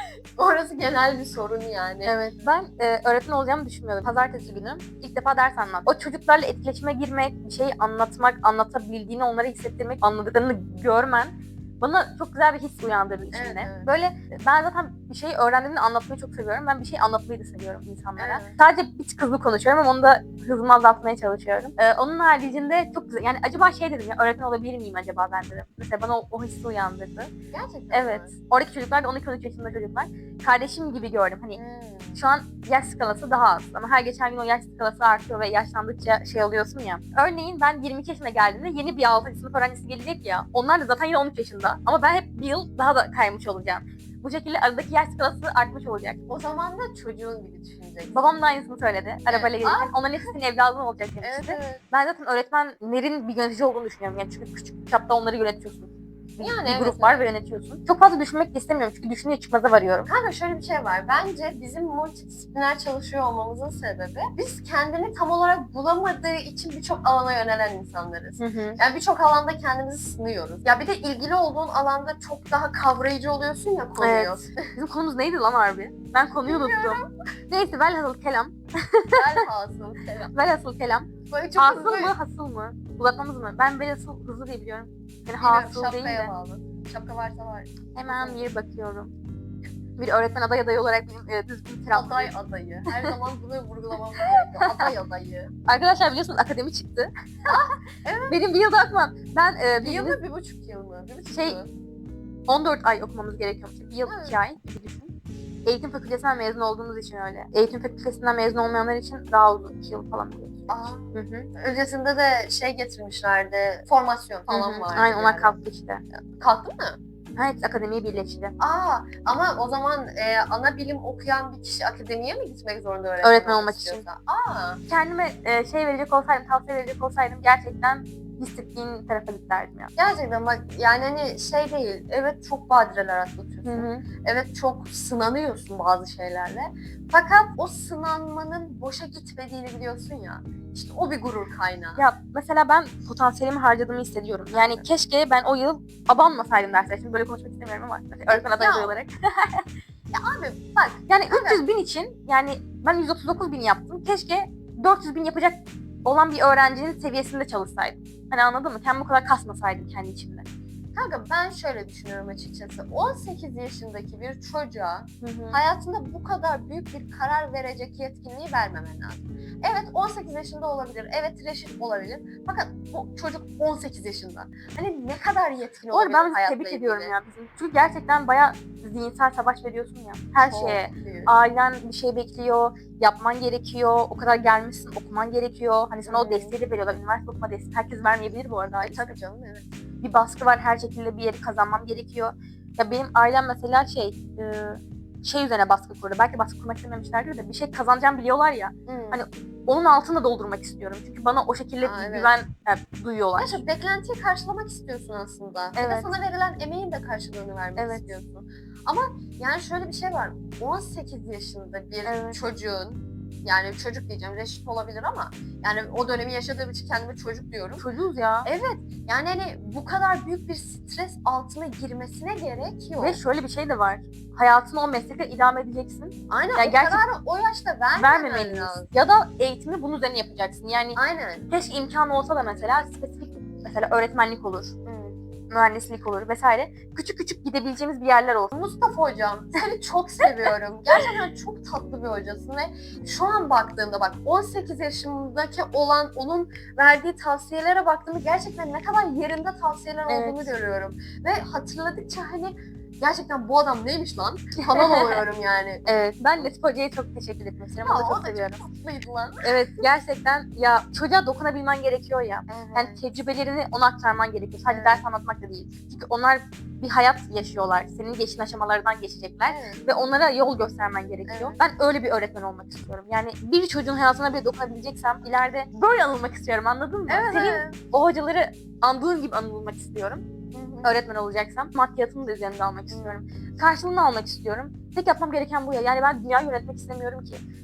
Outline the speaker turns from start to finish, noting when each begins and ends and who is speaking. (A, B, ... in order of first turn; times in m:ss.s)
0:00.4-0:02.1 A
0:02.0-0:27.3 B
0:13.3-0:13.9 A
0:18.2-0:18.6 A
0:27.5-0:28.3 A
0:27.9-0:31.6 B
0:31.6-0:32.2 A
0:32.1-0:46.2 B
0:46.3-0:48.4 A
0:48.1-1:00.1 B
0:49.3-0:50.3 A
0:51.2-0:51.8 A
0:56.4-0:57.3 A
1:00.1-1:14.7 A
1:08.4-1:08.8 B
1:14.0-1:19.4 B
1:16.4-1:17.0 A
1:19.1-1:20.3 A
1:20.3-1:26.3 B
1:21.3-1:22.1 A
1:25.4-1:28.4 A
1:27.9-1:29.1 B
1:30.0-1:32.3 B
1:31.9-1:35.5 A
1:34.2-1:34.9 B
1:35.7-1:37.5 B
1:37.4-1:38.4 A
1:38.3-1:40.2 B
1:39.8-1:41.7 A
1:41.3-1:41.6 B
1:42.5-1:45.1 B
1:44.0-1:44.4 A
1:45.6-1:51.5 B
1:50.7-1:55.5 A
1:54.5-1:56.0 B
1:56.1-1:57.0 A
1:57.4-1:58.5 B
1:58.6-2:04.8 A
2:03.2-2:04.0 B
2:04.9-2:09.9 B
2:10.0-2:22.0 A
2:13.6-2:14.0 B
2:22.0-2:29.6 B
2:24.5-2:24.8 A
2:28.3-2:29.0 A
2:30.1-2:31.6 A
2:31.1-2:40.4 B
2:40.9-2:57.1 A
2:45.2-2:45.6 B
2:55.9-3:09.1 B
3:00.5-3:01.3 A
3:06.0-3:06.5 A
3:08.8-3:09.7 A
3:10.0-3:23.6 B
3:18.9-3:19.2 A
3:21.8-3:22.3 A
3:23.4-3:37.8 A
3:25.8-3:26.1 B
3:27.8-3:28.0 B
3:32.0-3:32.4 B
3:37.8-3:38.5 B
3:38.4-3:43.2 A
3:43.0-3:47.0 B
3:46.3-3:48.9 A
3:48.0-3:51.0 B
3:50.9-3:51.5 A
3:51.5-3:54.8 B
3:52.4-3:52.8 A
3:54.8-3:55.2 A
3:55.5-3:58.5 B
3:58.5-4:15.8 A
4:00.2-4:01.1 B
4:10.1-4:10.5 B
4:14.6-4:15.2 B
4:15.8-4:18.6 B
4:17.8-4:19.4 A
4:19.4-4:40.2 B
4:22.5-4:23.0 A
4:24.7-4:25.0 A
4:29.4-4:29.8 A
4:31.3-4:31.6 A
4:37.1-4:37.8 A
4:40.5-4:40.9 A
4:40.8-4:47.4 B
4:42.9-4:43.2 A